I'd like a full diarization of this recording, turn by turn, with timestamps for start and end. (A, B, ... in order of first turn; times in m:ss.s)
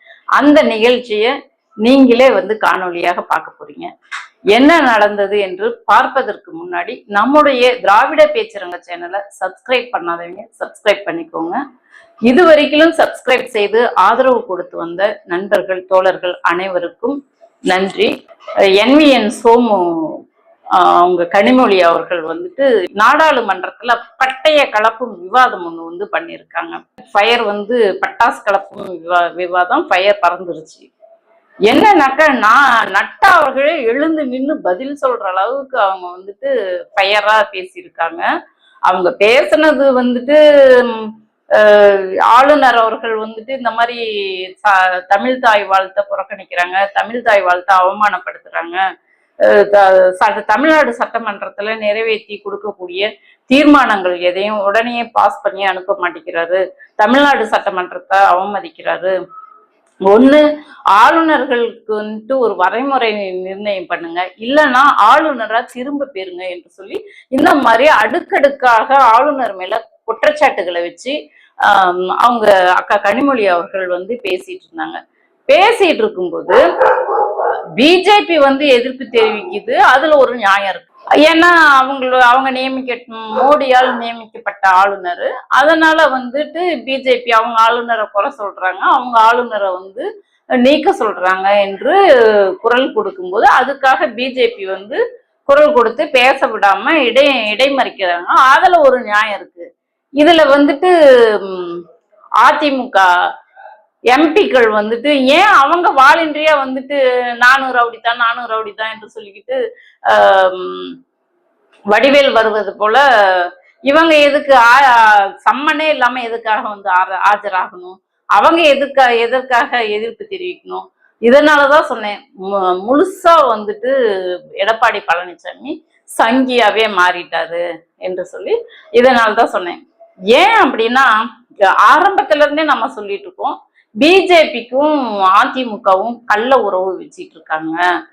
0:00.4-0:01.3 A
0:01.8-0:03.9 A
0:04.5-0:11.6 A
0:12.3-0:17.2 A
0:17.7-0:18.1 A
0:18.7-0:20.2 A
0:20.8-0:30.9 A
0:31.7-0:38.2 A
0:38.9-0:48.8 A
0:49.4-0:59.1 A
1:00.1-1:00.4 A
1:00.9-1:30.1 A
1:30.6-1:32.0 A
1:32.6-1:39.6 A
1:40.2-1:41.8 A
1:42.4-1:43.0 A
1:44.1-1:50.9 A
1:51.9-2:03.9 A
2:04.6-2:09.8 A
2:10.3-2:11.1 A
2:11.8-2:17.8 A